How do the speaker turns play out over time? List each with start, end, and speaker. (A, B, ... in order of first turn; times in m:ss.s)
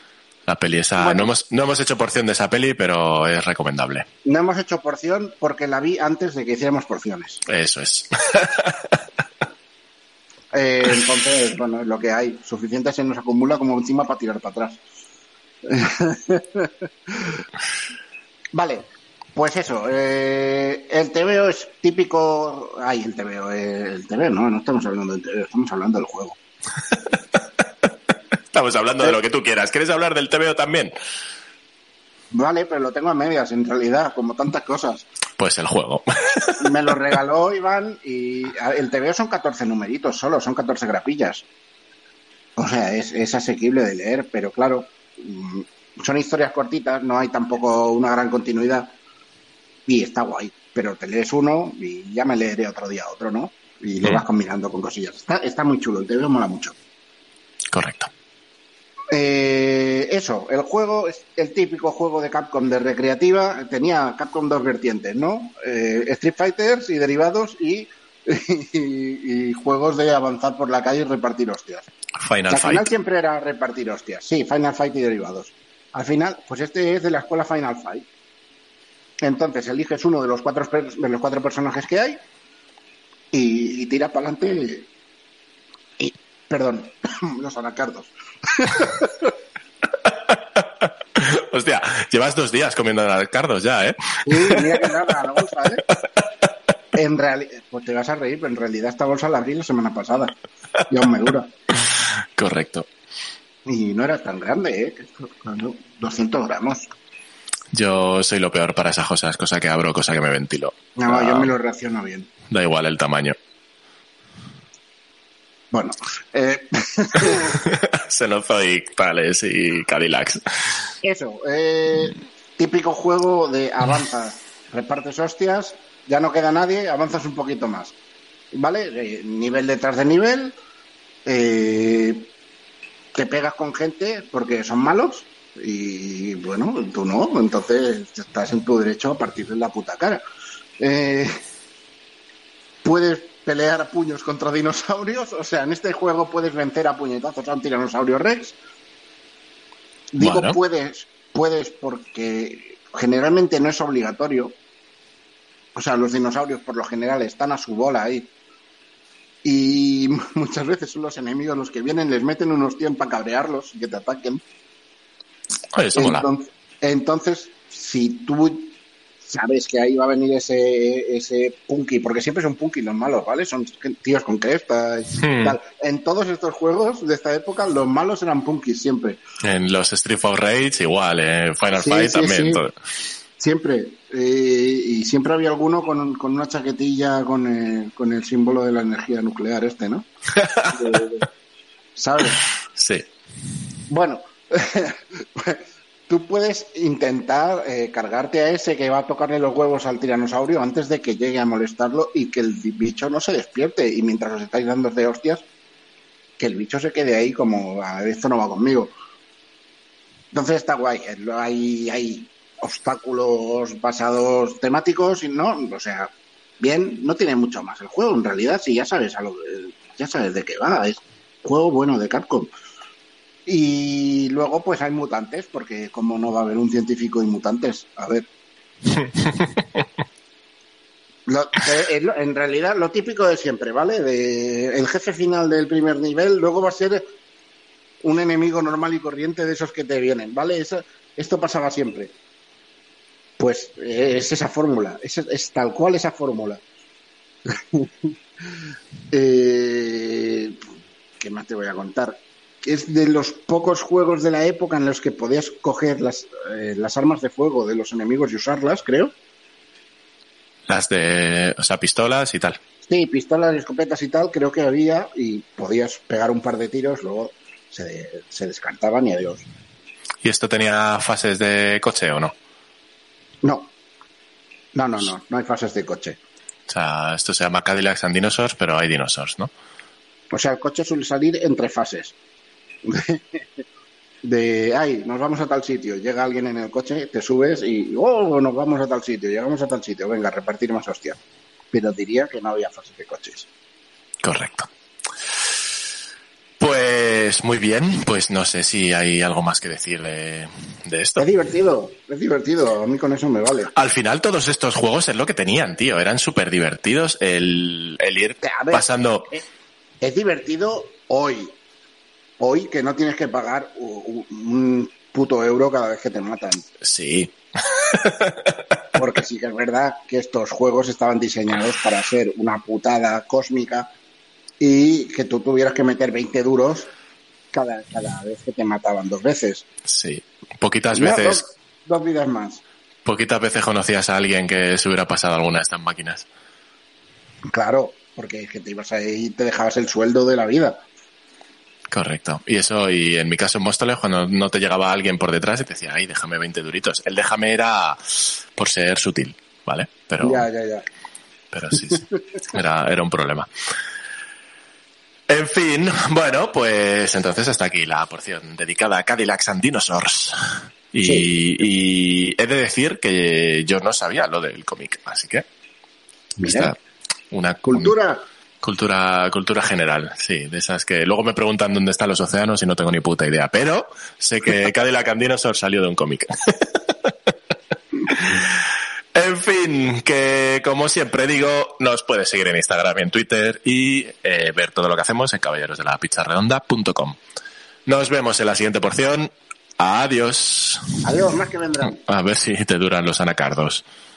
0:00.5-0:04.0 A
0:01.0-0:01.3 B
0:04.2-0:07.4 B
0:07.4-0:09.0 A
0:10.5-0:14.8 B
0:15.6-0:17.4 B
0:18.5-0:18.8 B
0:19.4-0:26.4 B
0:28.5-0:30.9 A
0:32.3-0:35.1 B
0:35.4-0:36.9 A
0:36.6-0:41.4 B
0:42.6-0:48.9 B
0:49.9-0:56.7 B
0:57.7-0:58.1 A
0:59.1-1:11.9 B
1:12.2-1:12.9 A
1:12.5-1:18.0 B
1:19.2-1:22.2 B
1:23.3-1:24.9 B
1:26.0-1:29.3 B
1:30.1-1:34.8 A
1:34.2-1:35.8 B
1:36.9-1:40.3 B
1:40.9-1:41.5 B
1:42.4-1:42.9 A
1:43.7-1:46.8 B
1:47.7-1:51.5 A
1:51.0-1:52.3 B
1:52.5-1:53.4 A
1:55.7-1:57.5 B
1:57.5-2:00.4 A
2:01.0-2:07.9 B
2:08.5-2:10.5 B
2:11.2-2:12.3 B
2:13.1-2:20.2 B
2:20.8-2:21.4 B
2:22.8-2:28.6 B
2:30.1-2:34.5 B
2:30.2-2:30.6 A
2:35.7-2:38.3 B
2:39.4-2:44.4 B
2:45.7-2:46.2 A
2:45.9-2:59.2 B
2:55.2-2:55.6 A
2:59.4-3:02.7 A
3:01.7-3:02.6 B
3:03.4-3:10.1 B
3:10.4-3:10.8 A
3:10.7-3:11.2 B
3:12.0-3:12.4 B
3:12.7-3:13.1 A
3:13.9-3:25.4 B
3:26.4-3:28.9 B
3:30.3-3:42.5 B
3:43.4-3:48.3 B
3:49.0-3:49.6 A
3:51.3-3:57.0 B
3:58.0-4:02.1 B
4:03.4-4:06.6 B
4:07.5-4:08.1 B
4:09.1-4:10.6 B
4:11.2-4:19.1 B
4:20.7-4:22.6 A
4:22.9-4:29.4 B
4:30.2-4:32.3 A
4:33.4-4:33.7 B
4:34.7-4:36.2 B
4:36.7-4:39.5 A
4:40.3-4:42.1 B
4:42.8-4:43.4 B
4:44.2-4:51.2 B
4:51.7-4:53.5 B
4:54.2-4:54.7 A
4:56.6-5:01.2 A
5:01.2-5:03.7 B
5:03.7-5:09.3 A
5:08.4-5:09.4 B
5:10.0-5:11.5 B
5:12.4-5:16.7 B
5:16.8-5:18.5 A
5:18.9-5:23.9 B
5:24.6-5:26.9 B
5:27.5-5:29.6 B
5:29.9-5:31.5 A
5:30.9-5:32.6 B
5:33.0-5:36.2 A
5:37.5-5:40.8 B
5:41.9-5:50.4 A
5:50.2-5:50.8 B
5:51.5-5:53.5 A
5:51.7-5:52.2 B
5:55.3-6:00.4 A
6:00.9-6:05.4 A
6:01.0-6:01.3 B
6:06.4-6:06.7 B
6:06.4-6:06.8 A
6:07.3-6:07.9 A
6:07.7-6:08.2 B
6:08.6-6:17.1 A
6:18.1-6:18.6 A
6:19.1-6:27.2 A
6:27.9-6:30.8 A
6:31.0-6:32.0 B
6:31.8-6:33.8 A